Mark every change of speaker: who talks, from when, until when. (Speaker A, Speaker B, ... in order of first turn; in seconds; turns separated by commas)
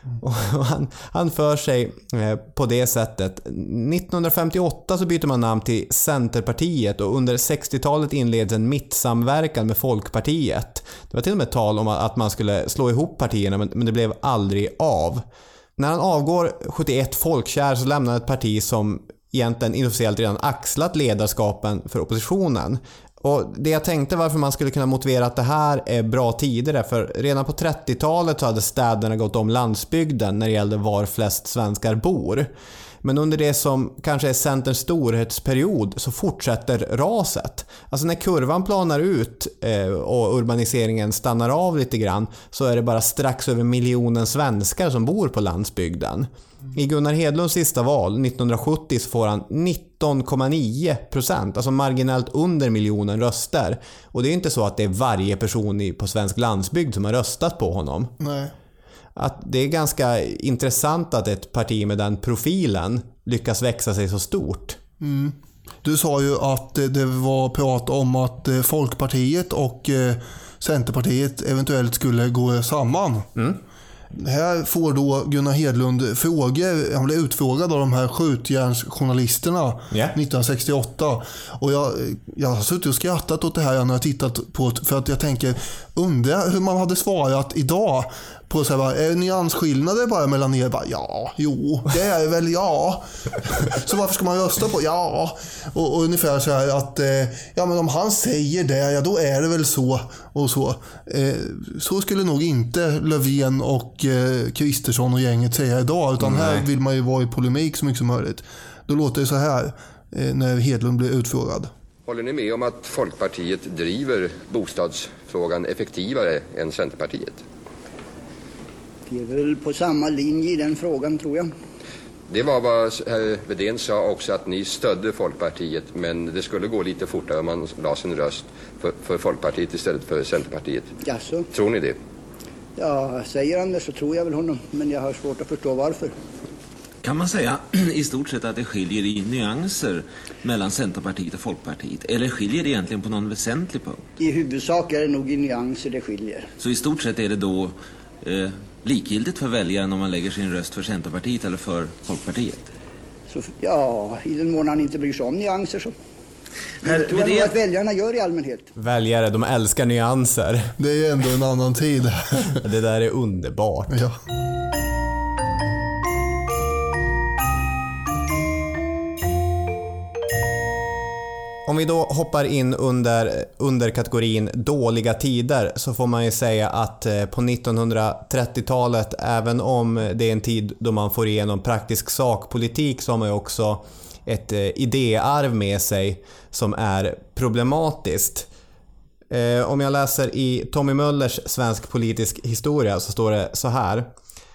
Speaker A: 0.2-15.2, Speaker A: 15.8-32.5, Speaker A: 33.0-58.1, Speaker B: 58.2-58.5, Speaker A: 59.1-64.8, Speaker B: 65.0-73.3, Speaker B: 74.2-111.7, Speaker A: 79.9-80.2, Speaker A: 106.2-106.7, Speaker C: 112.0-117.4, Speaker D: 119.1-121.5, Speaker C: 122.3-130.9, Speaker D: 131.0-131.4, Speaker C: 131.5-132.0, Speaker D: 132.8-136.1, Speaker E: 137.0-144.1, Speaker D: 144.2-146.5, Speaker E: 146.6-152.7, Speaker D: 153.3-155.9, Speaker D: 156.8-158.7, Speaker E: 156.8-157.6, Speaker A: 158.8-160.7, Speaker B: 160.8-162.6, Speaker A: 162.6-164.0, Speaker B: 163.9-164.2, Speaker A: 171.7-188.5, Speaker A: 189.3-194.1